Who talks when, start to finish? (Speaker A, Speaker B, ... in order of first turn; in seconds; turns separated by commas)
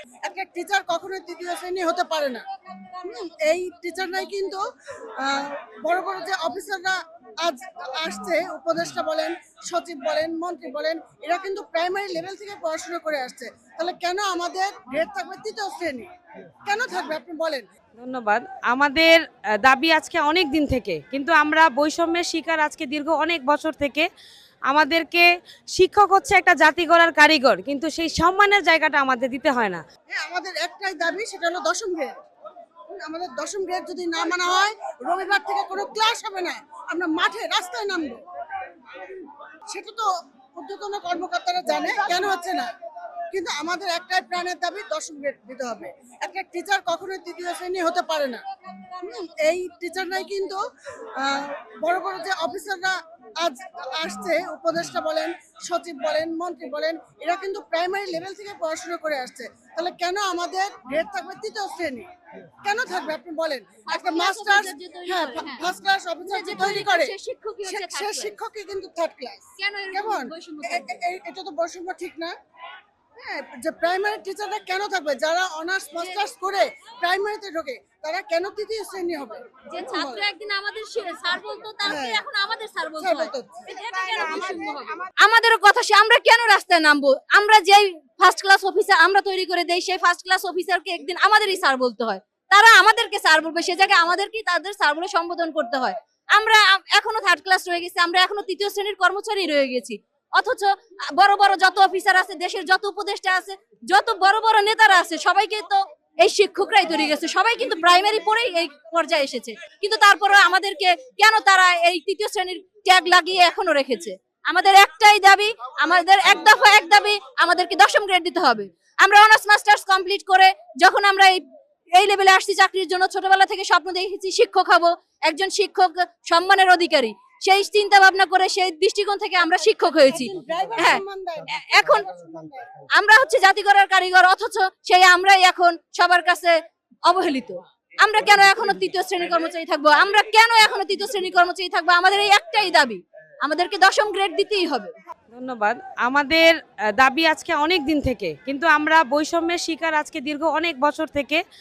Speaker A: 0.2-4.6, Speaker A: 5.2-16.1, Speaker A: 16.6-17.6, Speaker B: 18.0-24.1, Speaker B: 24.7-29.8, Speaker A: 30.1-32.1, Speaker A: 32.9-38.2, Speaker A: 39.7-42.7, Speaker A: 43.3-50.6, Speaker A: 51.1-62.0, Speaker A: 62.6-67.1, Speaker C: 63.9-65.7, Speaker C: 66.2-68.4, Speaker A: 67.6-72.3, Speaker C: 69.6-71.0, Speaker A: 73.2-80.2, Speaker C: 76.0-76.3, Speaker C: 79.7-121.4, Speaker A: 81.8-82.2, Speaker A: 83.0-85.1, Speaker C: 121.9-132.1, Speaker A: 129.9-132.7, Speaker C: 132.9-144.9, Speaker B: 145.3-151.4